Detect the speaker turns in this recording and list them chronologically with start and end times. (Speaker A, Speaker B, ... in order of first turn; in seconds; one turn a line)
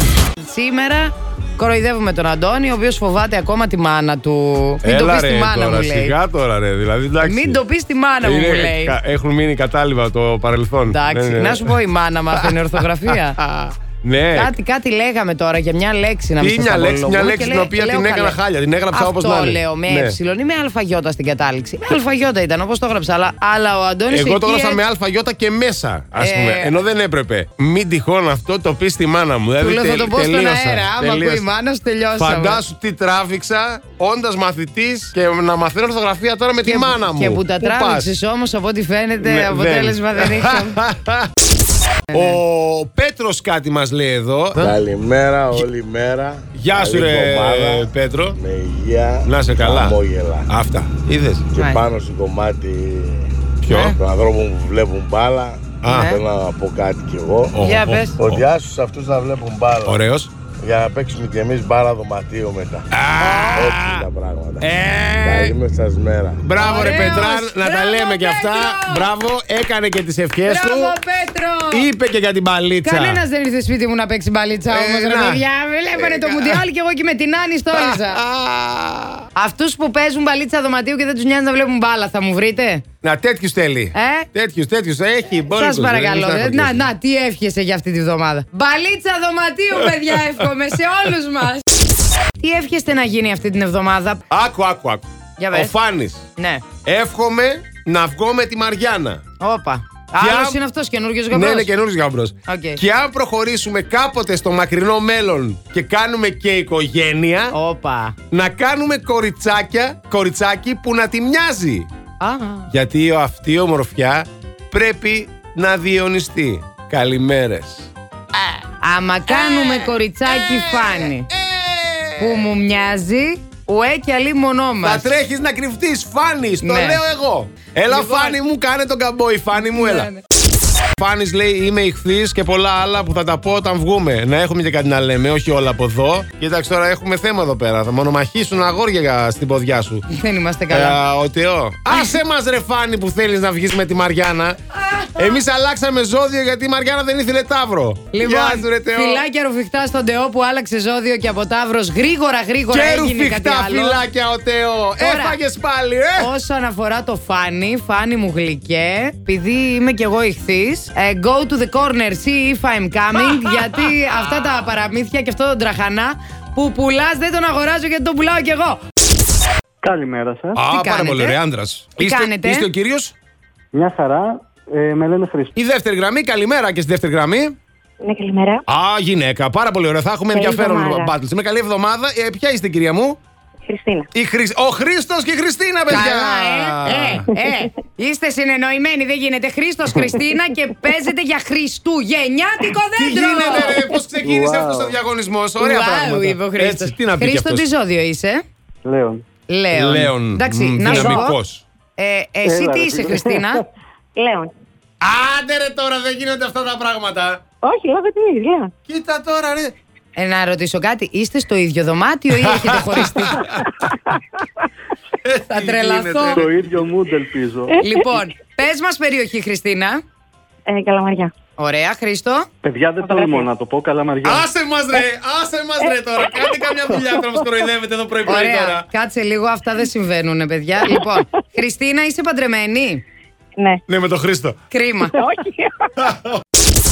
Speaker A: 0.4-6.2
Speaker B: 4.8-7.6
Speaker A: 7.2-9.0
Speaker B: 8.2-11.7
Speaker A: 10.9-13.4
Speaker B: 13.1-14.5
Speaker A: 14.3-18.4
Speaker B: 16.4-20.2
Speaker A: 18.9-24.8
Speaker B: 24.1-31.5
Speaker A: 26.2-26.8
Speaker A: 29.6-32.6
Speaker B: 32.2-38.1
Speaker A: 36.6-40.8
Speaker B: 39.2-41.3
Speaker A: 42.1-42.4
Speaker B: 42.1-44.8
Speaker C: 44.6-50.5
Speaker B: 46.6-48.4
Speaker B: 49.2-51.5
Speaker C: 51.5-53.3
Speaker B: 53.6-54.0
Speaker A: 53.7-54.0
Speaker C: 53.9-57.6
Speaker B: 55.8-56.2
Speaker A: 55.9-56.2
Speaker B: 57.5-58.5
Speaker A: 57.6-58.2
Speaker C: 58.2-60.0
Speaker B: 59.9-60.3
Speaker C: 60.6-66.4
Speaker B: 62.9-64.1
Speaker B: 64.6-65.6
Speaker B: 66.4-70.9
Speaker A: 66.6-69.1
Speaker A: 70.5-71.9
Speaker B: 71.7-73.2
Speaker A: 72.8-78.2
Speaker B: 74.7-75.4
Speaker B: 76.0-76.6
Speaker B: 77.7-79.2
Speaker A: 79.4-82.8
Speaker B: 83.0-86.9
Speaker A: 83.9-84.3
Speaker A: 85.5-91.6
Speaker A: 92.4-94.2
Speaker B: 94.3-96.2
Speaker A: 95.4-95.8
Speaker A: 96.4-96.7
Speaker B: 96.8-99.2
Speaker A: 99.4-101.7
Speaker B: 100.2-100.6
Speaker B: 101.3-107.5
Speaker A: 102.5-102.8
Speaker A: 107.5-108.2
Speaker B: 108.3-111.9
Speaker A: 112.2-112.7
Speaker B: 112.7-118.5
Speaker A: 118.8-121.3
Speaker B: 119.3-122.5
Speaker A: 122.2-125.1
Speaker B: 124.8-130.1
Speaker A: 126.6-127.0
Speaker A: 127.9-128.4
Speaker A: 129.6-130.2
Speaker B: 131.0-140.0
Speaker A: 140.1-141.0
Speaker B: 140.7-144.6
Speaker B: 145.2-149.2
Speaker A: 148.1-154.0
Speaker B: 152.7-156.3
Speaker A: 155.0-155.4
Speaker A: 156.2-168.8
Speaker B: 163.2-163.6
Speaker D: 169.8-170.6
Speaker B: 170.6-173.1
Speaker A: 170.7-171.4
Speaker A: 172.0-172.7
Speaker D: 173.7-175.5
Speaker B: 175.6-177.6
Speaker E: 178.0-178.6
Speaker B: 178.7-183.2
Speaker E: 180.3-181.1
Speaker E: 183.7-184.1
Speaker B: 184.1-187.3
Speaker A: 185.9-193.8
Speaker B: 193.0-197.7
Speaker D: 194.2-195.0
Speaker A: 195.6-198.4
Speaker D: 198.8-199.2
Speaker A: 199.5-201.4
Speaker B: 199.7-201.6
Speaker D: 200.9-201.3
Speaker A: 202.0-203.6
Speaker D: 202.4-203.4
Speaker E: 204.2-204.5
Speaker B: 205.0-207.4
Speaker E: 207.6-208.7
Speaker B: 208.9-209.7
Speaker A: 210.2-213.5
Speaker B: 212.4-214.2
Speaker B: 215.2-216.8
Speaker A: 215.5-216.4
Speaker D: 216.3-217.8
Speaker E: 217.7-218.1
Speaker A: 217.8-220.0
Speaker E: 220.7-221.3
Speaker A: 221.6-222.5
Speaker D: 222.6-224.5
Speaker E: 223.0-223.5
Speaker B: 224.2-228.8
Speaker E: 225.8-226.6
Speaker E: 227.1-227.4
Speaker A: 228.3-233.0
Speaker E: 233.6-233.8
Speaker B: 233.9-234.6
Speaker A: 234.7-235.2
Speaker E: 235.1-235.9
Speaker B: 236.0-236.4